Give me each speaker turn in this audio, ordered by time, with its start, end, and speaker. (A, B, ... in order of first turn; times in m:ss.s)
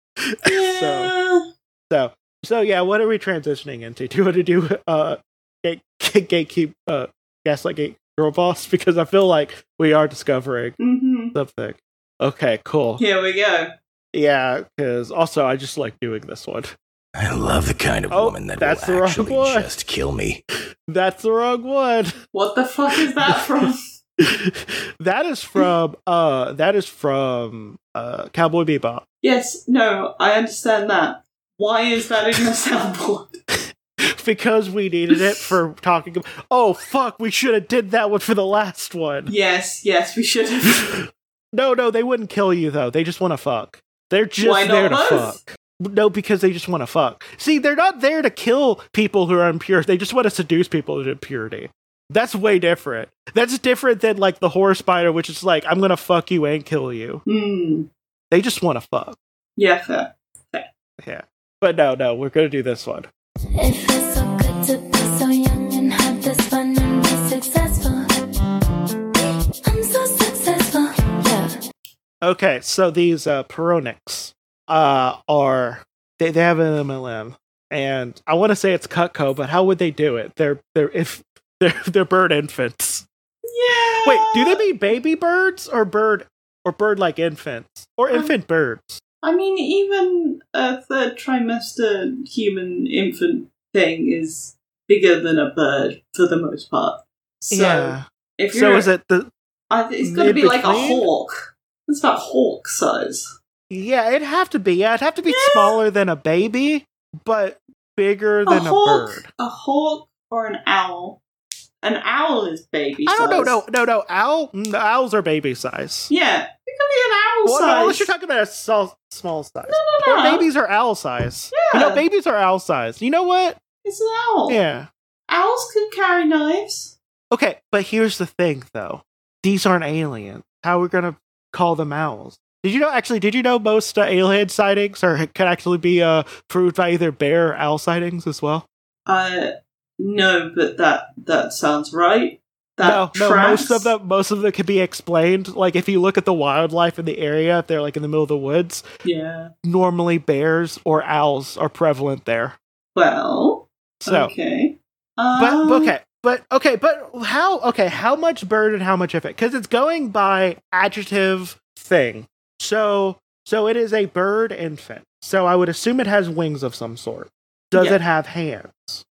0:00.2-0:01.1 A
0:00.4-0:01.4 B
0:01.9-0:10.8 A
0:10.8-0:11.3 B
0:11.3-0:13.0 A
0:13.0-0:13.7 B
0:14.1-0:16.7 A
0:17.2-0:20.4 C
0:18.1-0:19.7 A
0:20.9-0:22.1 A
0:22.3-0:23.8 B
0:24.2-0:29.0 A
0:29.2-0:33.4 B
0:34.2-0:39.3 A
0:39.3-0:40.9 B
0:41.5-0:57.2 A
0:44.4-0:45.4 B
0:57.2-0:57.9 B
0:58.3-0:59.2 A
0:59.6-1:00.7 B
1:01.0-1:03.1 A
1:03.6-1:08.2 D
1:09.6-1:11.5 D
1:12.2-1:23.0 A
1:23.5-1:24.6 B
1:24.0-1:29.0 A
1:29.2-1:38.9 B
1:37.5-1:39.3 A
1:39.7-1:41.3 B
1:40.0-1:41.1 A
1:41.9-1:43.3 B
1:43.7-1:49.3 A
1:45.3-1:45.7 B
1:48.5-1:51.2 B
1:51.8-1:53.6 B
1:53.0-1:56.1 A
1:56.1-1:58.1 B
1:57.4-2:03.6 A
1:59.7-2:00.4 B
2:01.5-2:02.0 B
2:03.8-2:04.6 B
2:04.5-2:04.9 A
2:05.3-2:06.9 B
2:07.3-2:18.6 A
2:19.1-2:23.9 B
2:22.8-2:28.8 A
2:29.0-2:29.5 B
2:29.6-2:32.6 A
2:32.9-2:35.9 B
2:34.0-2:34.3 A
2:35.4-2:49.0 A
2:47.7-2:48.0 B